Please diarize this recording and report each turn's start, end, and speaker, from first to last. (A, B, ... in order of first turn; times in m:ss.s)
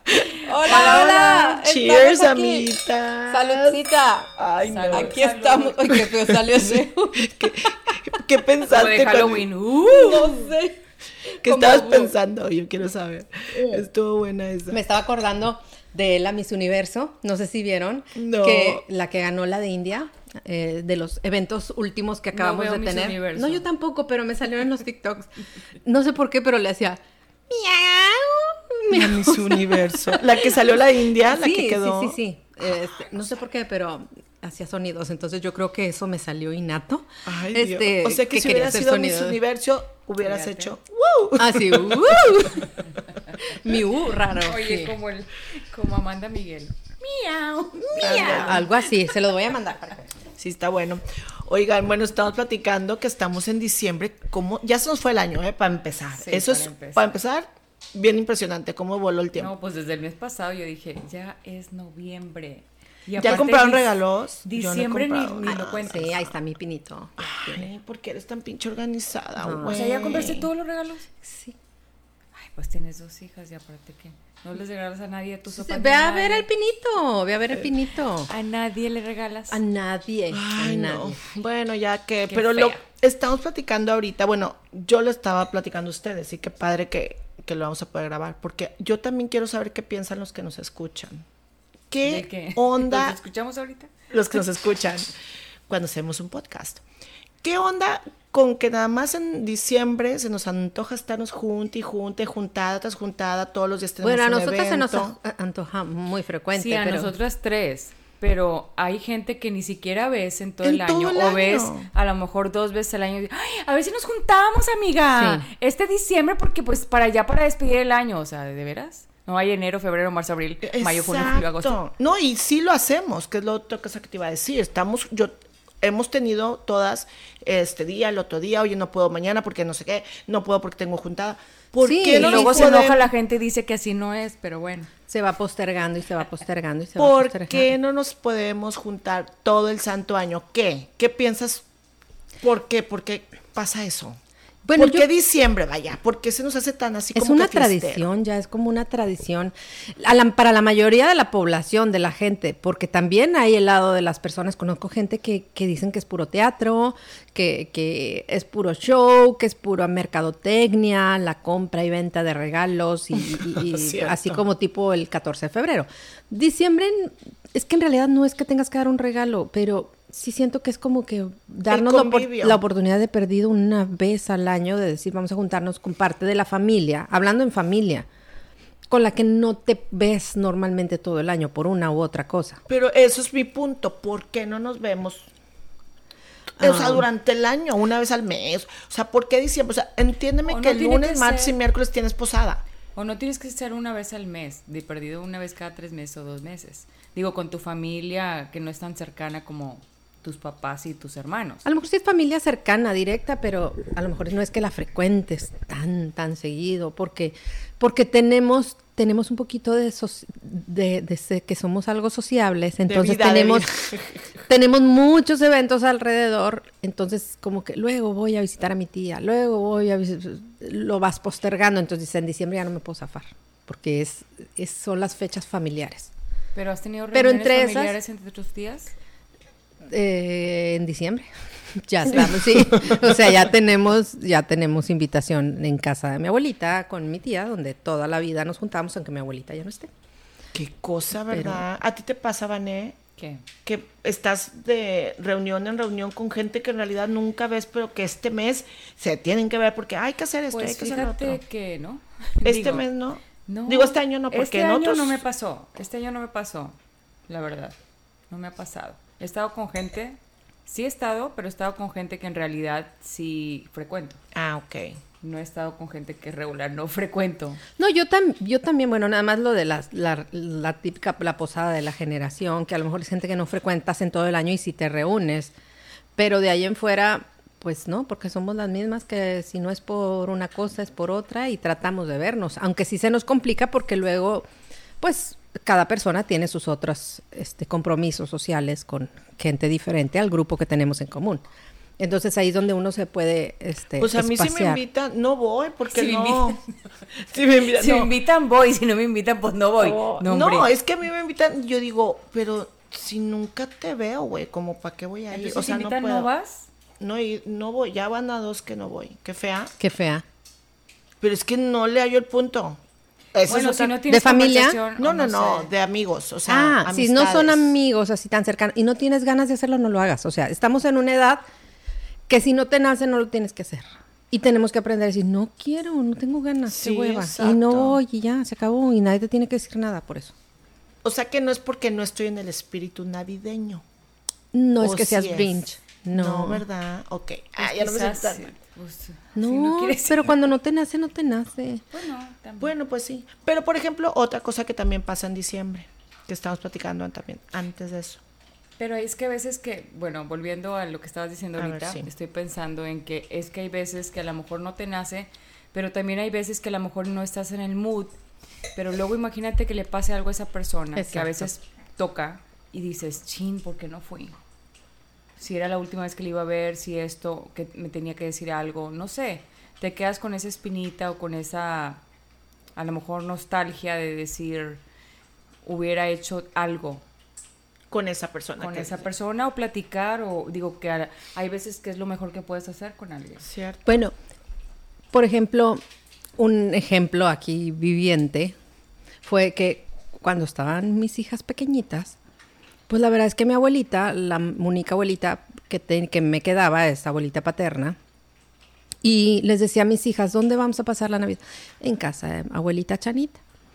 0:00.4-0:03.8 A
0:00.4-0:02.7 B
0:00.6-0:01.4 C
0:03.3-0:04.4 B
0:04.4-0:05.2 A
0:04.6-0:05.9 C
0:04.9-0:07.4 B
0:05.9-0:09.5 A
0:08.7-0:10.6 C
0:09.9-0:10.8 B
0:11.4-0:14.8 A
0:11.5-0:12.1 B
0:14.7-0:25.3 B
0:18.2-0:18.8 A
0:22.3-0:23.6 C
0:25.8-0:30.5 B
0:28.9-0:32.2 A
0:31.3-0:39.4 B
0:37.3-0:42.5 A
0:40.2-0:40.7 C
0:41.4-0:42.8 B
0:43.4-0:45.0 B
0:44.4-0:48.7 C
0:47.9-0:48.7 A
0:48.0-0:50.1 B
0:50.4-0:59.5 A
0:56.2-0:57.1 C
0:59.4-1:06.2 C
1:03.2-1:06.1 A
1:05.4-1:07.6 B
1:07.2-1:10.5 A
1:09.4-1:09.9 B
1:09.7-1:11.1 C
1:11.2-1:11.6 B
1:12.4-1:16.5 C
1:15.5-1:18.3 B
1:18.3-1:19.6 C
1:19.5-1:21.3 B
1:20.3-1:31.2 A
1:22.3-1:22.8 C
1:31.9-1:33.2 A
1:32.0-1:33.9 C
1:34.1-1:35.1 A
1:35.7-1:36.8 A
1:37.4-1:45.2 A
1:44.0-1:47.1 B
1:46.5-2:01.8 C
1:50.6-1:51.9 A
1:55.1-1:55.5 B
2:00.6-2:13.1 A
2:11.8-2:12.9 B
2:12.1-2:14.9 C
2:15.1-2:17.7 B
2:17.0-2:21.6 A
2:22.4-2:24.2 A
2:24.6-2:25.1 B
2:24.8-2:28.1 A
2:27.2-2:58.1 B
2:43.3-2:44.4 A
2:51.7-2:52.6 A
2:58.9-3:02.6 B
3:02.7-3:05.3 A
3:06.6-3:12.6 A
3:06.6-3:07.0 B
3:10.5-3:11.6 C
3:13.0-3:21.6 C
3:21.6-3:33.7 B
3:32.9-3:34.2 A
3:34.5-3:46.1 B
3:46.6-3:49.0 C
3:47.1-3:48.0 B
3:49.9-3:59.9 B
3:52.5-3:53.0 A
4:00.5-4:03.0 A
4:01.3-4:01.6 B
4:03.2-4:03.4 C
4:03.6-4:11.4 A
4:10.5-4:12.8 C
4:12.4-4:15.2 A
4:13.4-4:16.8 C
4:17.3-4:17.8 C
4:18.3-4:24.2 C
4:24.3-4:25.0 A
4:25.2-4:27.6 C
4:27.8-4:35.5 B
4:36.2-4:44.5 B
4:45.0-4:51.4 B
4:52.0-4:54.8 B
4:54.0-4:56.6 A
4:55.9-4:56.6 C
4:57.2-4:58.1 A
4:57.7-5:00.7 C
4:59.8-5:06.3 A
5:05.3-5:06.7 C
5:07.0-5:09.7 A
5:09.8-5:10.2 B
5:11.2-5:12.8 A
5:13.3-5:14.0 A
5:13.5-5:15.7 C
5:14.1-5:14.8 B
5:15.0-5:17.7 A
5:16.5-5:21.4 B
5:22.3-5:30.3 B
5:26.7-5:28.0 A
5:31.0-5:33.8 A
5:34.5-5:36.6 B
5:34.8-5:35.6 A
5:36.1-5:38.5 A
5:37.6-5:40.4 C
5:39.4-5:41.8 B
5:41.9-5:42.7 C
5:42.6-5:48.2 A
5:48.8-5:58.2 C
5:51.6-5:52.1 A
5:58.8-6:04.4 C
6:01.0-6:01.4 B
6:05.4-6:12.0 C
6:12.8-6:14.8 C
6:15.6-6:17.0 C
6:17.9-6:19.1 A
6:18.6-6:23.4 C
6:23.4-6:23.8 A
6:23.9-6:24.1 B
6:25.1-6:25.8 B
6:26.4-6:28.6 B
6:29.2-6:32.2 B
6:32.9-6:38.0 B
6:39.0-6:43.4 B